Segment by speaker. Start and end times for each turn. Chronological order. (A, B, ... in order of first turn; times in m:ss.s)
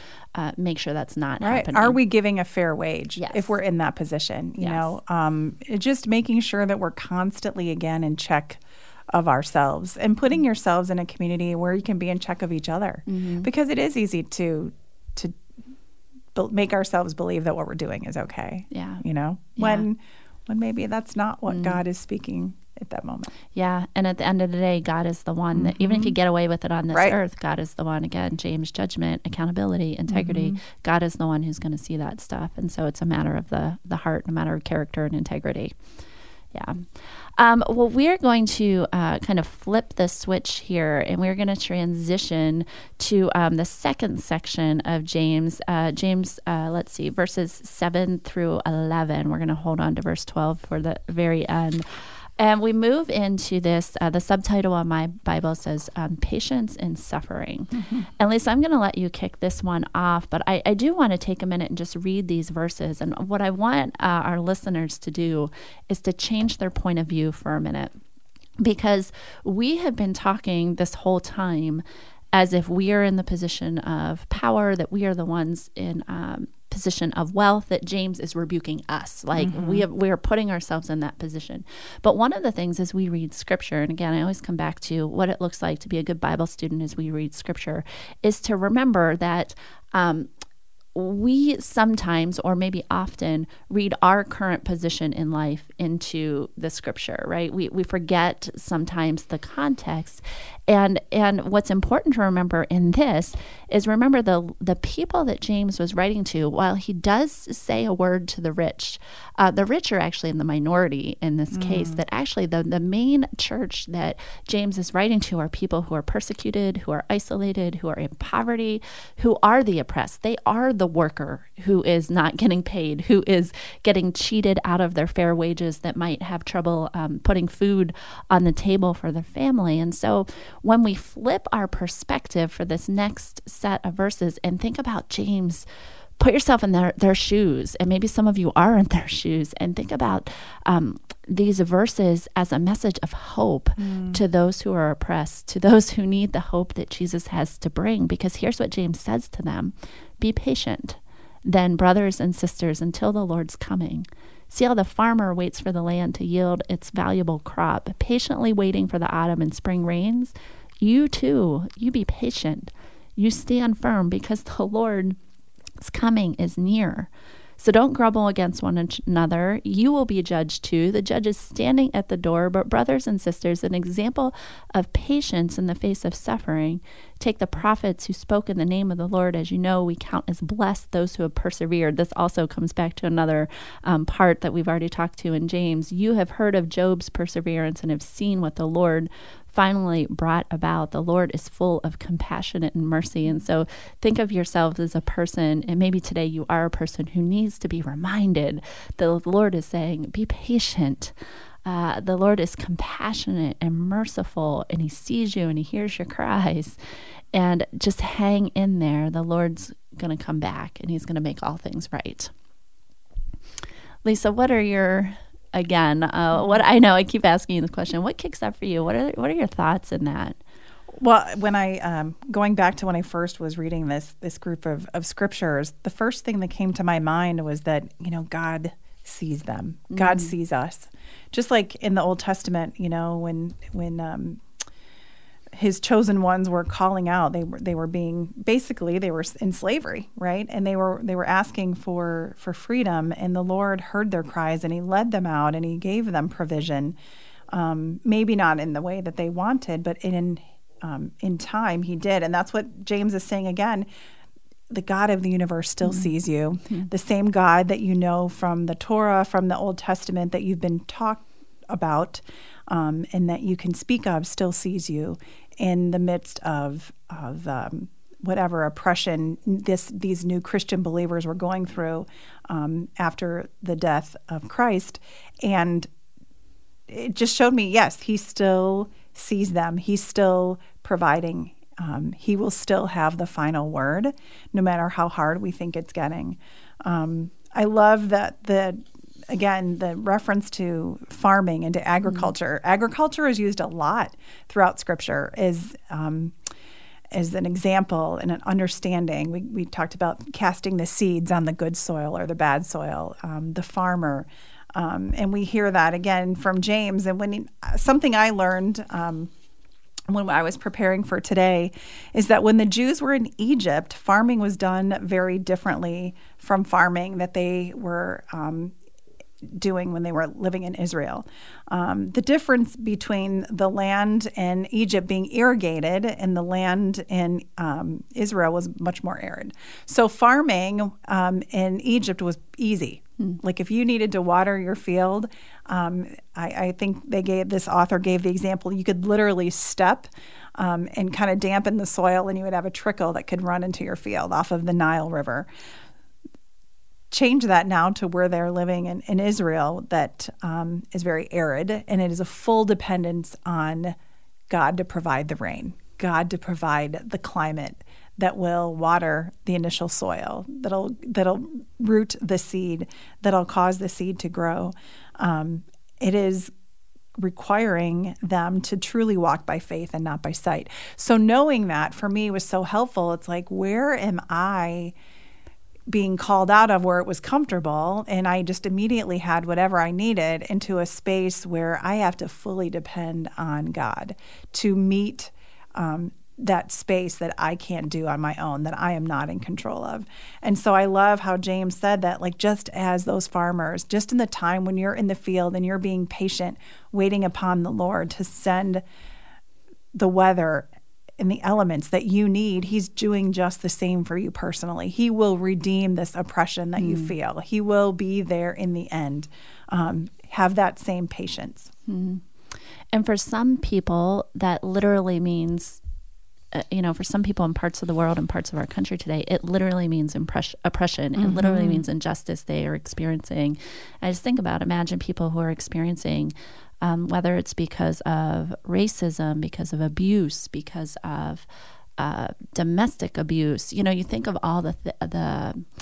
0:00.4-0:02.0 A
0:01.4-0:15.4 B
0:03.2-0:03.5 A
0:04.6-0:04.9 A
0:13.1-0:13.5 A
0:16.4-0:23.3 B
0:18.7-0:19.0 A
0:19.6-0:19.9 A
0:21.5-0:21.8 A
0:23.5-0:35.7 A
0:25.6-0:26.2 B
0:26.9-0:27.2 B
0:30.1-0:30.6 B
0:36.5-0:51.9 A
0:52.4-1:07.9 A
1:08.6-1:30.3 A
1:19.4-1:19.8 B
1:31.0-2:15.7 A
1:51.5-1:52.0 B
2:16.2-2:45.2 A
2:23.8-2:24.2 B
2:45.8-3:21.1 A
3:21.6-3:26.8 A
3:27.3-3:32.3 A
3:34.0-3:40.4 A
3:36.4-3:36.6 B
3:41.0-3:54.4 B
3:49.9-3:50.3 A
3:55.5-4:07.0 B
4:07.5-4:13.9 B
4:14.7-4:35.9 B
4:36.9-4:56.4 B
4:57.1-5:09.3 B
5:10.1-5:18.8 B
5:19.4-5:45.5 B
5:47.1-5:54.0 B
5:54.5-6:06.5 B
6:07.2-6:14.9 B
6:15.9-6:38.8 B
6:39.9-6:51.7 B
6:46.8-6:47.1 A
6:51.9-6:52.2 A
6:52.9-6:55.8 A
6:56.5-7:11.5 A
7:01.2-7:01.8 B
7:12.0-7:15.7 A